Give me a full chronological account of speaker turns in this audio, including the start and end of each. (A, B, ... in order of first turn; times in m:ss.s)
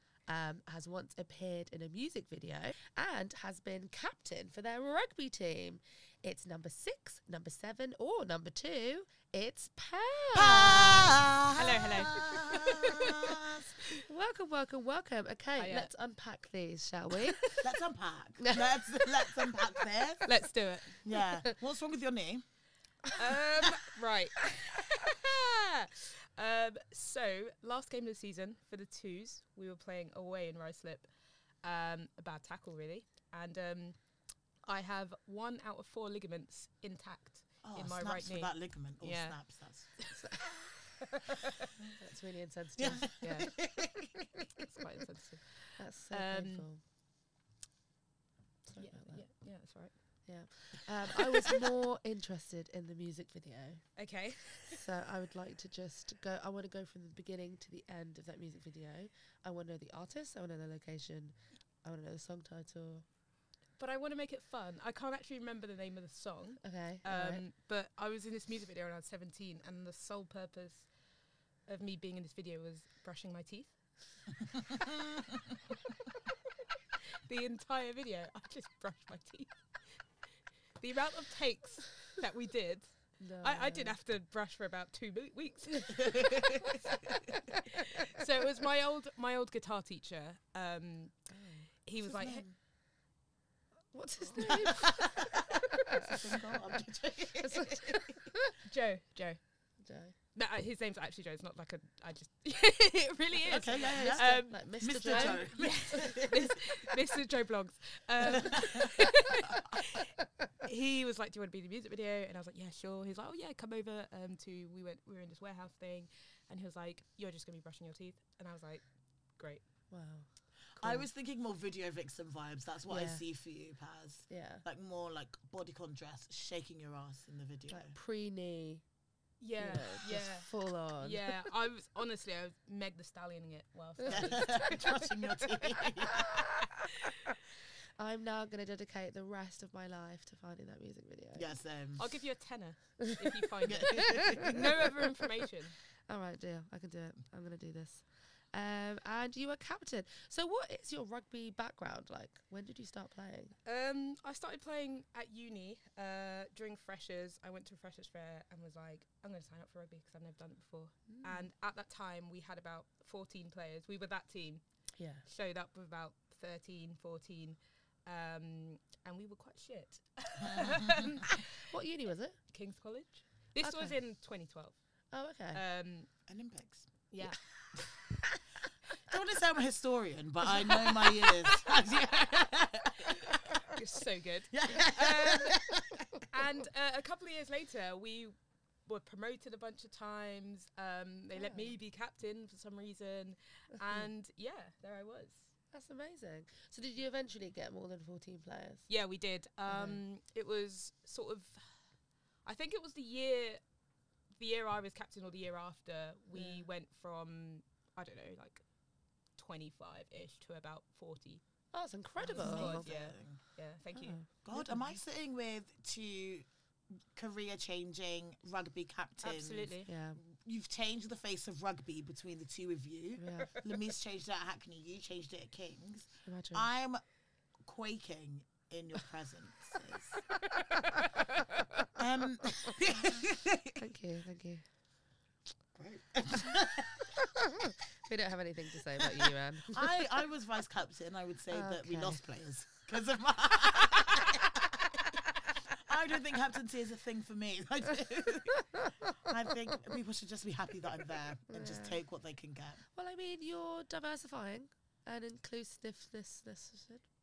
0:00.3-0:11.2 A
0:10.3-0:13.7 B
0:11.5-0:14.0 C
0:14.0-0:17.6 A
0:15.6-0:15.9 C
0:17.4-0:17.6 C
0:17.6-0:20.2 B
0:18.4-0:18.8 A
0:20.2-0:21.0 C
0:21.0-0:22.4 B
0:23.1-0:31.1 C
0:31.6-0:34.0 C
0:34.6-0:39.4 C
0:37.6-0:39.9 B
0:40.0-0:40.5 C
0:40.1-0:40.6 A
0:41.0-0:41.7 C
0:41.9-0:43.6 A
0:42.8-0:44.4 B
0:43.2-0:43.5 C
0:44.5-0:46.7 C
0:45.8-0:46.8 A
0:48.6-0:49.2 A
0:48.8-0:49.9 C
0:50.3-0:53.8 A
0:54.0-0:54.8 C
0:54.7-1:03.0 A
1:03.8-1:10.9 C
1:06.6-1:07.4 A
1:11.7-1:13.7 C
1:14.5-1:15.1 C
1:17.0-1:19.5 C
1:20.8-1:31.1 C
1:23.2-1:24.0 A
1:26.0-1:26.9 B
1:27.3-1:27.8 A
1:31.3-1:31.7 A
1:31.8-1:32.4 C
1:32.0-1:32.5 B
1:33.9-1:36.8 A
1:34.4-1:38.2 B
1:37.4-1:38.5 A
1:38.6-1:39.4 C
1:39.8-1:40.1 A
1:40.3-1:58.8 C
1:43.5-1:46.6 B
1:43.8-1:46.1 A
1:48.3-1:48.9 B
1:59.4-1:59.6 C
1:59.9-2:01.1 A
2:00.8-2:08.0 B
2:02.9-2:03.2 A
2:04.3-2:04.6 A
2:07.7-2:08.8 A
2:09.4-2:15.5 C
2:09.6-2:11.3 A
2:14.1-2:16.3 B
2:16.6-2:17.3 C
2:18.0-2:21.6 A
2:21.4-2:22.0 B
2:22.0-2:25.8 C
2:23.7-2:24.8 B
2:23.8-2:24.9 A
2:26.1-2:33.5 A
2:33.6-2:44.6 C
2:41.1-2:41.5 A
2:45.0-2:45.2 A
2:45.2-2:51.7 C
2:50.4-2:51.2 B
2:51.7-2:52.4 A
2:52.5-2:54.8 C
2:53.6-2:54.0 A
2:55.1-2:55.6 A
2:55.5-2:56.1 C
2:56.3-2:56.9 B
2:57.1-2:57.4 C
2:59.0-3:03.7 B
3:00.7-3:01.6 C
3:03.1-3:05.6 C
3:04.5-3:06.2 B
3:06.3-3:08.3 C
3:08.8-3:15.5 C
3:11.3-3:11.8 A
3:15.7-3:18.8 A
3:18.9-3:21.6 C
3:19.7-3:20.0 A
3:22.4-3:23.6 C
3:24.4-3:28.6 C
3:26.3-3:26.7 A
3:29.4-3:31.4 C
3:31.7-3:32.8 A
3:32.2-3:33.4 B
3:32.3-3:34.2 C
3:33.9-3:35.0 A
3:34.4-3:36.4 B
3:37.1-3:47.0 B
3:39.2-3:39.9 C
3:39.8-3:40.2 A
3:43.2-3:43.6 A
3:46.2-3:46.7 A
3:47.6-3:50.2 B
3:50.5-3:51.9 C
3:51.9-3:53.8 B
3:53.8-3:54.6 A
3:55.7-3:57.3 B
3:57.3-4:00.1 A
3:59.0-4:05.2 B
4:01.5-4:02.2 A
4:05.8-4:12.8 B
4:11.5-4:12.0 A
4:12.9-4:17.1 A